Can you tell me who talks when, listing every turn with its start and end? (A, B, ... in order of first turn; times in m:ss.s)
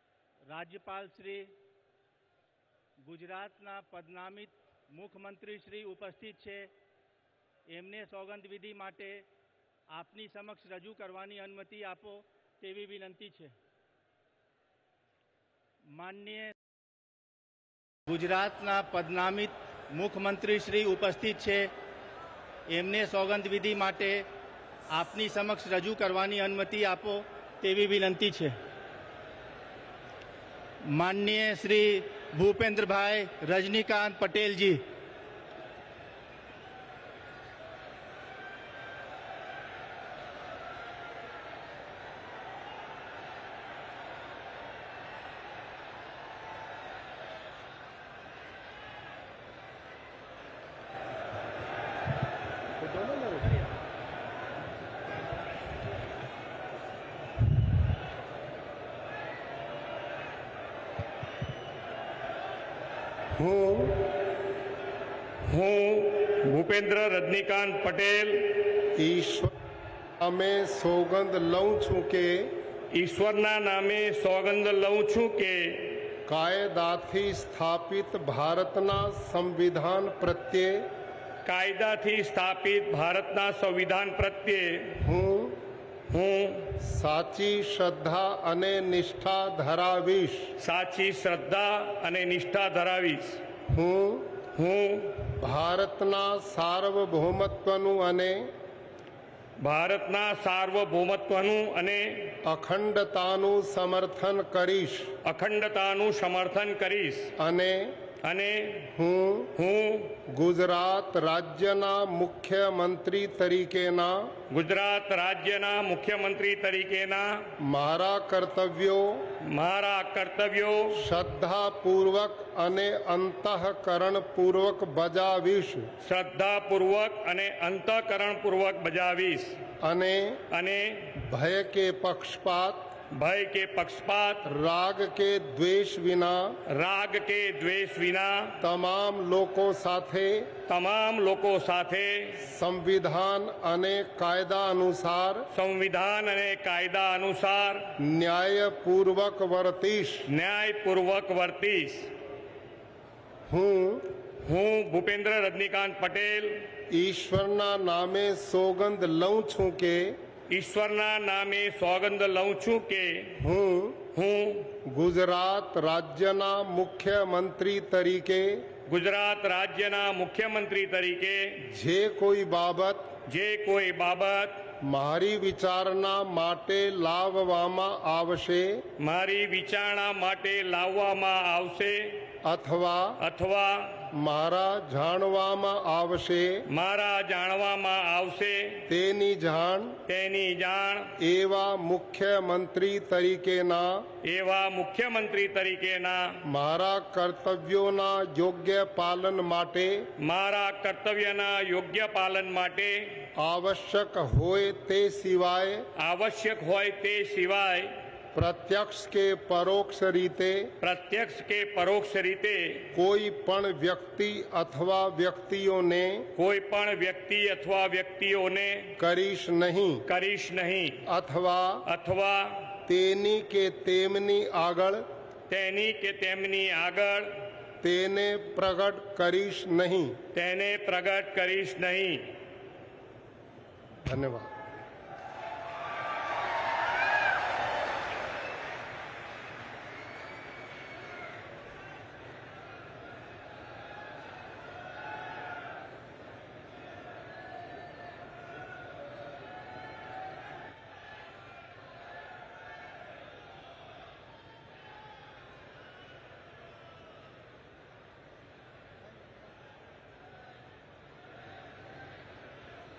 0:00.5-0:01.5 A
0:03.0-0:06.7 A
0:07.7-0:09.2 A
0:09.9-0:13.5 A
0:15.9-0:16.6 A
0:18.1-0:21.7 A
0:22.7-0:24.2 A
0:24.9-0:28.6 A
0:30.8-0:34.8 A
1:03.4-1:04.0 B
1:05.5-1:08.5 C
1:09.0-1:09.5 B
1:10.2-1:12.5 B
1:13.0-1:16.0 C
1:16.3-1:20.9 B
1:21.4-1:25.0 C
1:25.0-1:25.6 B
1:26.1-1:26.7 C
1:26.8-1:30.5 B
1:30.6-1:33.4 C
1:33.7-1:34.4 B
1:34.6-1:35.2 C
1:35.4-1:38.5 B
1:39.6-1:42.4 C
1:42.4-1:45.1 B
1:45.2-1:47.3 C
1:47.4-1:47.9 B
1:48.2-1:48.9 C
1:49.0-1:49.5 B
1:49.6-1:50.1 C
1:50.3-1:54.3 B
1:54.5-1:57.4 C
1:57.7-1:59.2 B
1:59.5-2:01.0 C
2:01.0-2:05.9 B
2:06.0-2:09.6 C
2:09.8-2:10.4 B
2:10.5-2:11.1 C
2:11.2-2:12.9 B
2:13.2-2:14.4 C
2:14.5-2:16.5 B
2:16.8-2:18.5 C
2:18.6-2:20.5 B
2:20.7-2:22.4 C
2:22.4-2:25.4 B
2:25.5-2:27.9 C
2:28.0-2:30.2 B
2:30.3-2:32.1 C
2:33.5-2:34.0 B
2:34.4-2:36.7 C
2:36.9-2:40.1 B
2:40.5-2:43.3 C
2:43.4-2:44.0 B
2:44.1-2:44.7 C
2:44.8-2:48.6 B
2:48.9-2:51.4 C
2:51.7-2:53.1 B
2:53.3-2:54.7 C
2:54.8-2:58.8 B
2:59.0-3:02.2 C
3:02.4-3:03.1 B
3:03.2-3:04.0 C
3:04.2-3:06.5 B
3:06.7-3:08.8 C
3:08.9-3:10.0 B
3:10.1-3:11.1 C
3:11.2-3:14.0 B
3:14.3-3:16.3 C
3:16.5-3:20.1 B
3:20.2-3:23.3 C
3:23.4-3:25.8 B
3:26.0-3:27.9 C
3:28.3-3:30.7 B
3:30.8-3:32.8 C
3:32.9-3:36.2 B
3:36.4-3:38.9 C
3:39.0-3:40.0 B
3:40.1-3:40.9 C
3:41.1-3:41.8 B
3:41.9-3:42.6 C
3:42.9-3:45.0 B
3:45.5-3:47.4 C
3:47.8-3:50.2 B
3:50.3-3:52.3 C
3:54.0-3:54.5 B